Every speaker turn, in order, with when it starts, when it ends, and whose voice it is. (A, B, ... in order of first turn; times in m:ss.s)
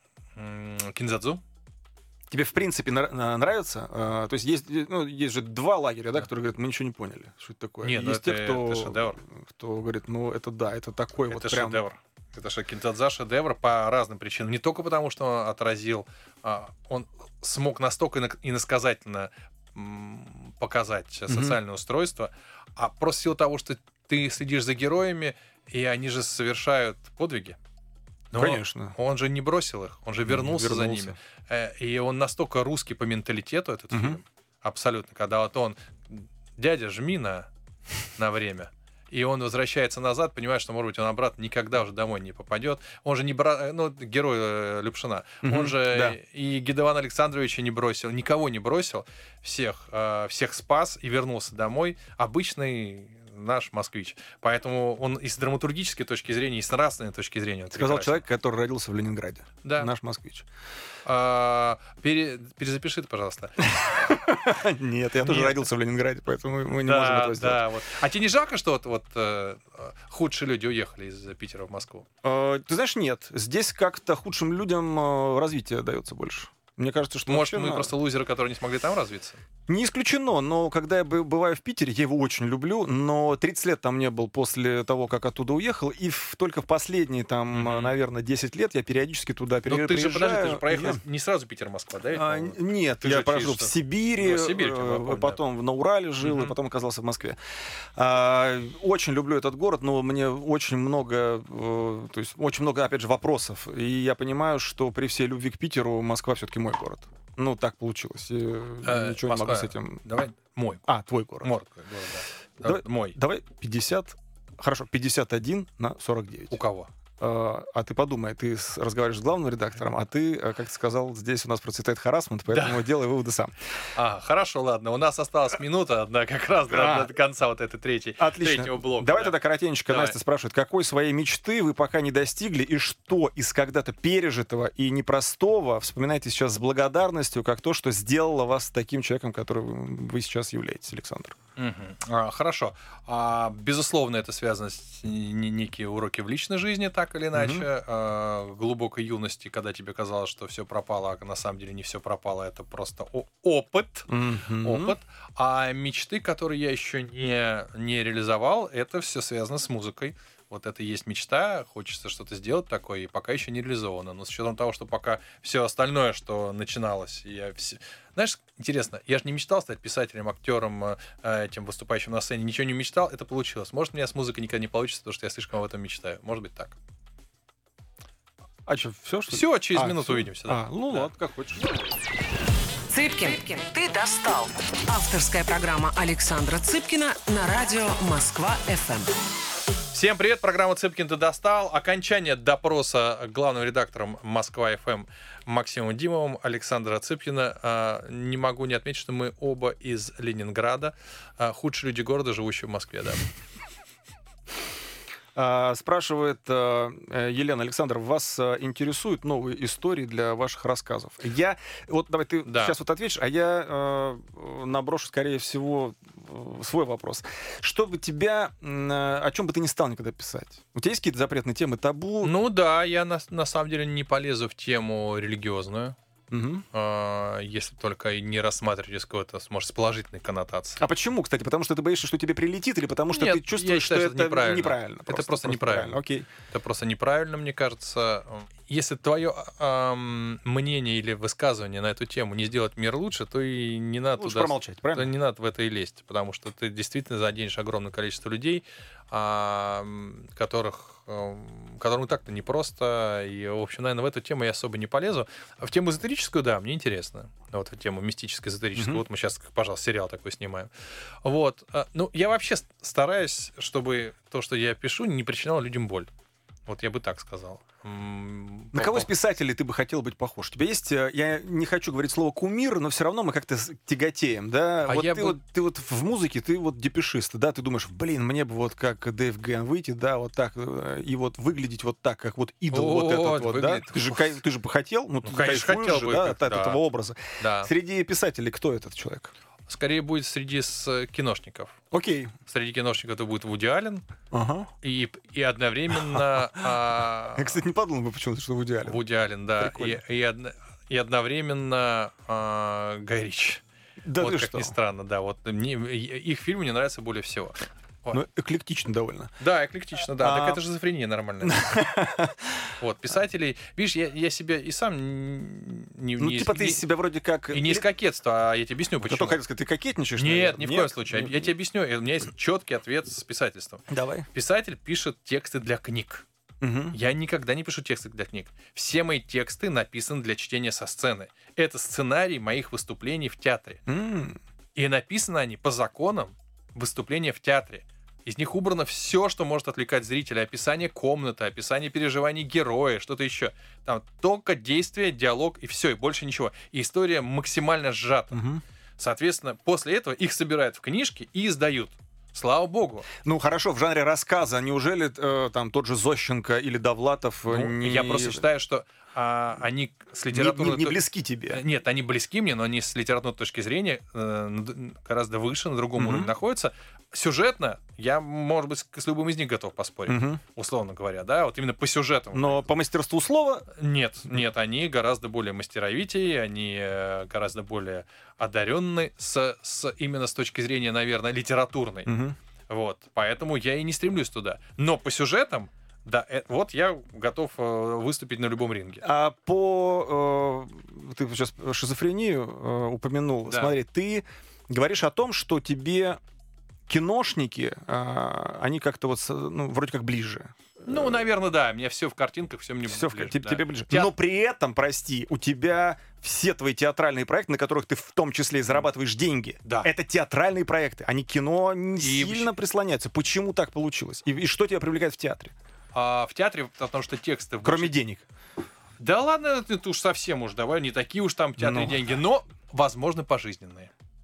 0:00.4-0:01.4 A
0:02.3-0:11.8 B
0:07.8-0:09.2 A
0:11.3-0:27.6 A
0:21.3-0:21.6 B
0:28.3-0:37.5 A
0:28.4-0:29.0 B
0:30.3-0:31.2 B
0:33.9-0:34.2 B
0:38.2-0:58.2 A
0:45.4-0:46.2 B
0:57.7-1:00.5 B
0:59.6-0:59.9 A
1:01.0-1:04.1 A
1:03.6-1:07.6 B
1:05.2-1:05.6 A
1:06.8-1:12.1 A
1:12.2-1:17.9 B
1:17.3-1:19.4 A
1:19.7-1:31.0 B
1:27.5-1:27.9 A
1:29.7-1:35.4 A
1:32.1-1:37.4 B
1:36.2-1:36.5 A
1:38.0-1:50.0 B
1:48.8-1:50.8 A
1:50.9-1:51.5 B
1:51.4-1:53.2 A
1:52.6-1:56.6 B
1:56.5-1:56.9 A
1:57.2-2:03.5 B
2:02.5-2:02.9 A
2:04.0-2:09.4 A
2:06.7-2:07.1 B
2:08.2-2:21.4 B
2:09.9-2:10.2 A
2:21.6-2:34.1 A
2:27.3-2:27.7 B
2:34.1-2:35.0 B
2:34.6-2:56.8 A
2:58.7-3:01.7 B
2:59.3-3:01.1 A
3:02.9-3:09.1 C
3:09.9-3:23.3 A
3:25.4-3:42.4 B
3:32.5-3:32.8 A
3:42.2-3:46.0 A
3:46.3-3:46.6 B
3:46.7-3:50.8 A
3:50.8-3:56.3 B
3:53.1-3:56.0 A
3:56.5-4:20.7 A
4:04.2-4:05.1 B
4:18.8-4:19.0 B
4:21.2-4:26.1 A
4:26.7-4:29.1 A
4:28.7-4:49.3 B
4:34.9-4:35.4 A
4:42.7-4:44.4 A
4:45.2-4:46.8 A
4:47.4-4:47.7 A
4:49.7-4:51.8 A
4:51.9-4:52.4 B
4:52.5-4:54.0 A
4:54.3-4:54.7 B
4:54.8-4:57.6 A
4:57.4-4:59.0 B
4:58.8-5:03.6 A
4:59.6-5:00.0 B
5:04.0-5:04.8 B
5:04.2-5:08.2 A
5:08.1-5:09.3 B
5:09.4-5:11.8 A
5:10.2-5:10.6 B
5:11.4-5:12.7 B
5:12.8-5:16.8 A
5:16.2-5:17.9 B
5:17.5-5:19.4 A
5:19.0-5:21.5 B
5:20.2-5:26.3 A
5:23.9-5:24.3 B
5:26.6-5:27.0 B
5:26.9-5:33.8 A
5:33.9-5:34.4 B
5:34.8-5:48.4 A
5:48.3-5:48.6 B
5:49.0-5:53.1 A
5:53.2-5:58.4 B
5:57.5-6:12.6 A
6:00.3-6:01.6 B
6:06.0-6:06.3 B
6:10.1-6:10.4 B
6:12.3-6:13.7 B
6:13.8-6:22.1 A
6:22.1-6:22.4 B
6:22.7-6:29.0 A
6:29.0-6:36.2 B
6:33.5-6:33.7 A
6:36.9-6:41.3 B
6:40.9-6:44.1 A
6:42.9-6:55.6 B
6:49.6-6:49.9 A
6:52.0-6:52.5 A
6:55.9-6:57.9 A
6:57.6-6:58.2 B
6:59.0-7:03.9 A
7:01.6-7:02.0 B